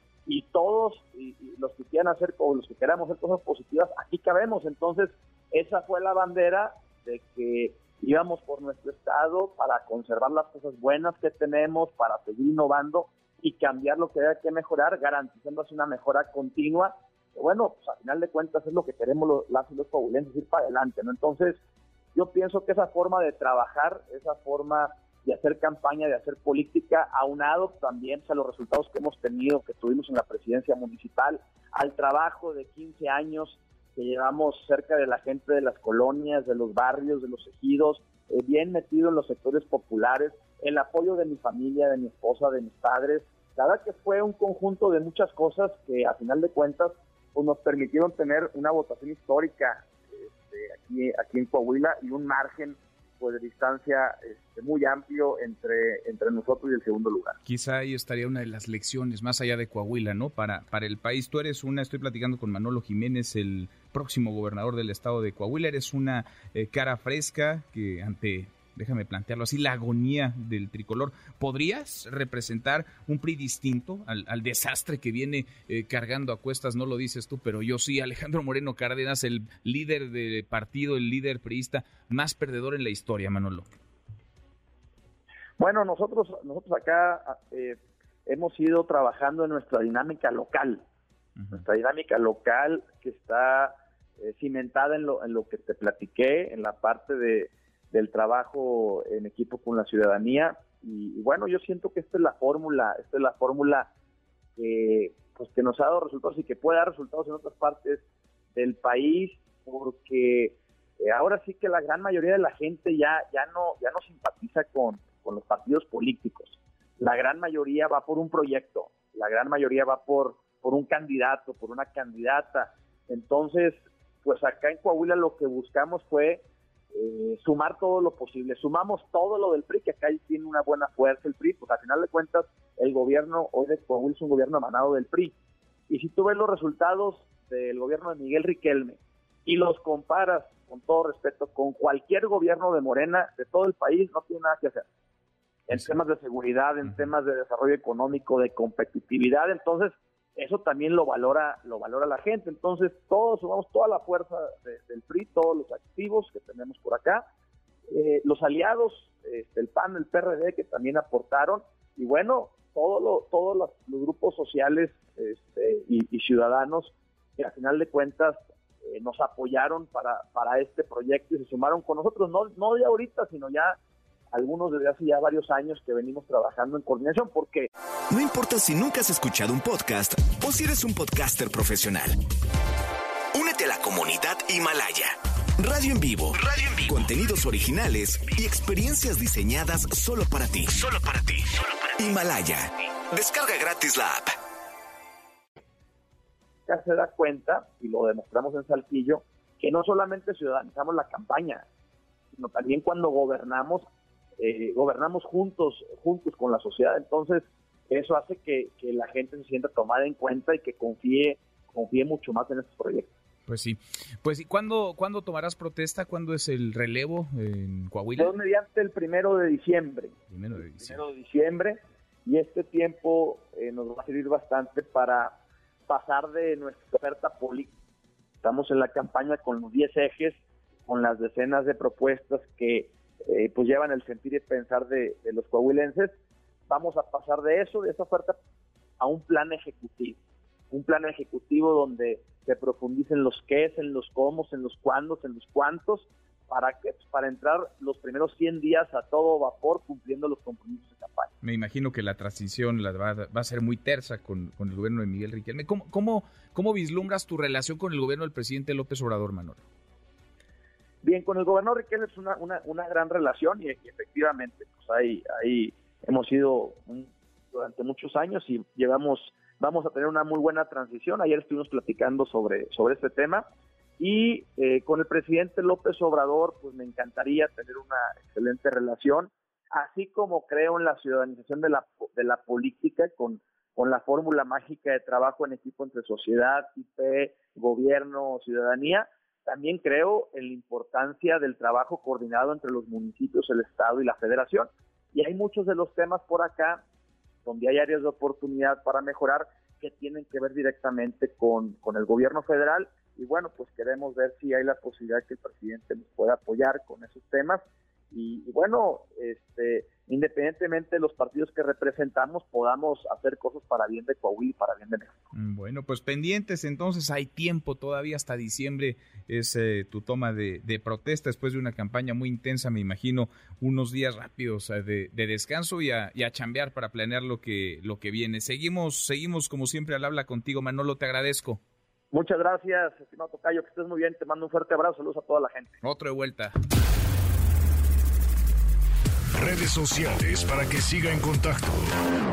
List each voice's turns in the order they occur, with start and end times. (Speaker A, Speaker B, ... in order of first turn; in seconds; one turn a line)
Speaker A: 0.3-21.6
Speaker A: 22.1-57.4
Speaker B: 57.5-83.7
Speaker A: 85.6-90.8
Speaker A: 91.5-103.9
Speaker A: 104.6-135.4
Speaker A: 135.9-144.8
Speaker A: 145.7-157.2
Speaker A: 157.9-173.8
Speaker A: 174.3-177.7
Speaker C: 178.1-182.2
Speaker C: 183.3-194.3
Speaker A: 196.7-201.7
Speaker A: 202.3-203.8
Speaker A: 204.4-213.1
Speaker B: 213.5-218.3
Speaker A: 218.2-220.2
Speaker B: 220.3-221.0
Speaker A: 220.7-225.3
Speaker A: 225.9-227.7
Speaker A: 228.4-236.1
Speaker A: 236.7-238.4
Speaker A: 239.0-240.2
Speaker A: 240.7-251.3
Speaker B: 251.4-259.6
Speaker A: 261.0-273.4
Speaker A: 274.0-296.8
Speaker A: 297.4-315.2
Speaker B: 315.3-331.6
Speaker A: 332.1-335.8
Speaker B: 335.8-336.5
Speaker C: 339.4-341.8